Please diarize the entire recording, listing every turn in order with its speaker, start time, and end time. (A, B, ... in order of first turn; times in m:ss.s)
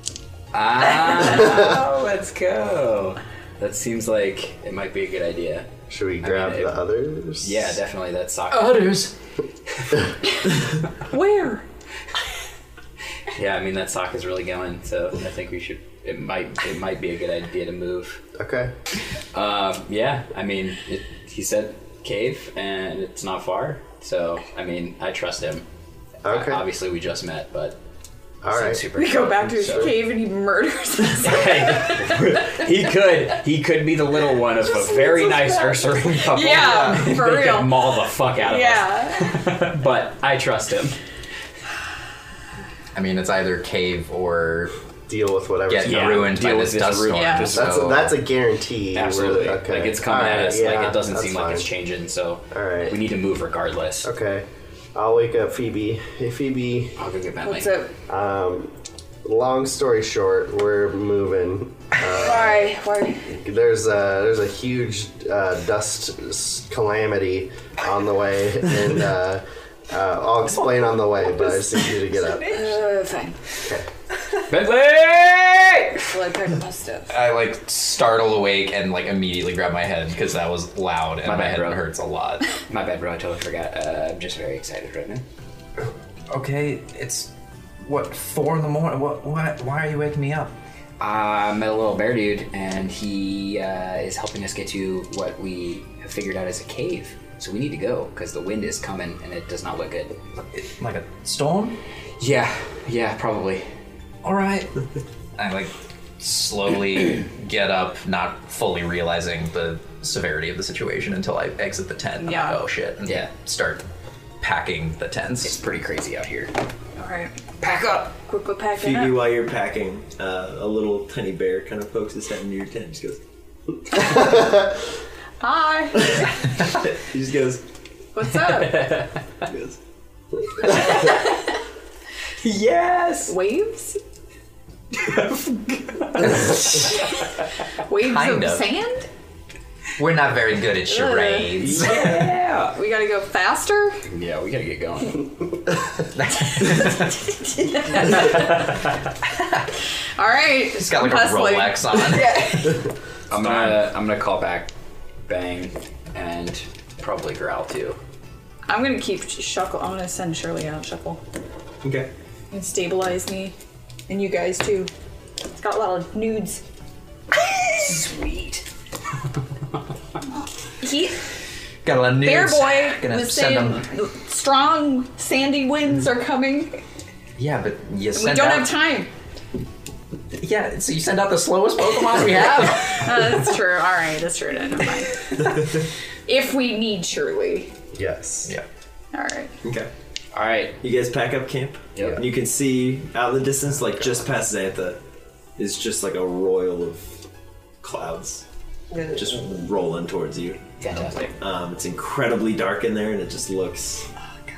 0:00.5-0:05.7 A
0:01.4-0:01.7 B
0:05.9-0:07.7 B
0:06.2-0:06.8 A
0:07.4-0:08.9 A
0:08.5-0:09.1 C
0:11.1-0:11.6 D
0:13.4-0:18.2 A
0:18.4-0:18.7 B
0:19.3-0:25.6 A
0:26.2-0:26.7 B
0:26.3-0:27.8 A
0:28.4-0:30.0 B
0:28.4-0:30.0 A
0:28.9-0:32.3 D
0:31.2-0:41.0 A
0:34.8-0:39.4 D
0:36.6-0:37.1 C
0:43.0-0:44.7 C
0:45.1-0:46.3 B
0:45.7-0:48.1 C
0:45.8-0:48.1 A
0:47.1-0:47.6 D
0:47.5-0:51.7 B
0:48.9-0:54.1 A
0:52.5-0:53.1 B
0:54.0-0:57.0 B
0:57.0-0:57.8 A
0:57.4-0:57.9 D
0:58.1-0:58.7 B
0:59.2-1:02.7 B
1:02.1-1:03.2 D
1:03.3-1:12.6 B
1:12.5-1:13.4 D
1:14.5-1:16.1 A
1:16.1-1:17.1 D
1:17.1-1:22.5 C
1:21.2-1:21.9 A
1:22.7-1:25.2 A
1:26.3-1:30.5 C
1:31.0-1:40.2 A
1:40.4-1:41.8 C
1:42.2-1:43.7 A
1:44.2-1:44.8 C
1:45.4-1:53.9 C
1:52.2-1:52.6 D
1:53.0-1:53.3 A
1:54.4-1:55.6 C
1:55.4-1:56.5 A
1:57.0-1:57.3 D
1:57.6-1:58.2 A
1:58.3-1:59.2 D
1:58.8-2:03.2 E
2:05.4-2:06.5 D
2:06.0-2:07.6 E
2:08.1-2:09.1 D
2:08.3-2:09.2 A
2:09.5-2:09.8 E
2:10.7-2:11.6 D
2:10.7-2:11.1 A
2:12.4-2:13.4 A
2:13.3-2:14.0 D
2:14.9-2:17.0 A
2:17.9-2:19.1 D
2:17.9-2:18.7 C
2:20.0-2:22.2 C
2:20.9-2:22.0 D
2:21.6-2:22.8 A
2:22.7-2:24.0 D
2:24.0-2:25.3 A
2:26.1-2:27.2 C
2:26.6-2:28.6 D
2:28.1-2:28.4 A
2:29.2-2:29.7 C
2:30.2-2:32.9 D
2:30.8-2:32.8 C
2:33.3-2:34.7 A
2:33.4-2:33.8 C
2:35.3-2:38.0 A
2:38.7-2:41.2 D
2:41.8-2:42.1 E
2:42.5-2:43.6 D
2:44.1-2:44.9 D
2:45.6-2:46.6 D
2:47.4-2:48.0 D
2:47.8-2:48.6 A
2:50.8-2:51.2 D
2:51.8-2:53.9 C
2:52.2-2:56.8 D
2:57.4-2:58.8 C
2:58.1-2:59.1 D
3:00.4-3:03.3 C
3:02.8-3:05.6 D
3:06.3-3:07.7 D
3:07.9-3:08.5 B
3:09.1-3:09.5 D
3:09.6-3:09.9 E
3:10.3-3:10.8 A
3:10.8-3:15.0 E
3:12.0-3:12.2 A
3:15.6-3:17.2 E
3:17.8-3:18.4 E
3:19.1-3:20.7 E
3:20.8-3:21.4 A
3:21.3-3:24.1 E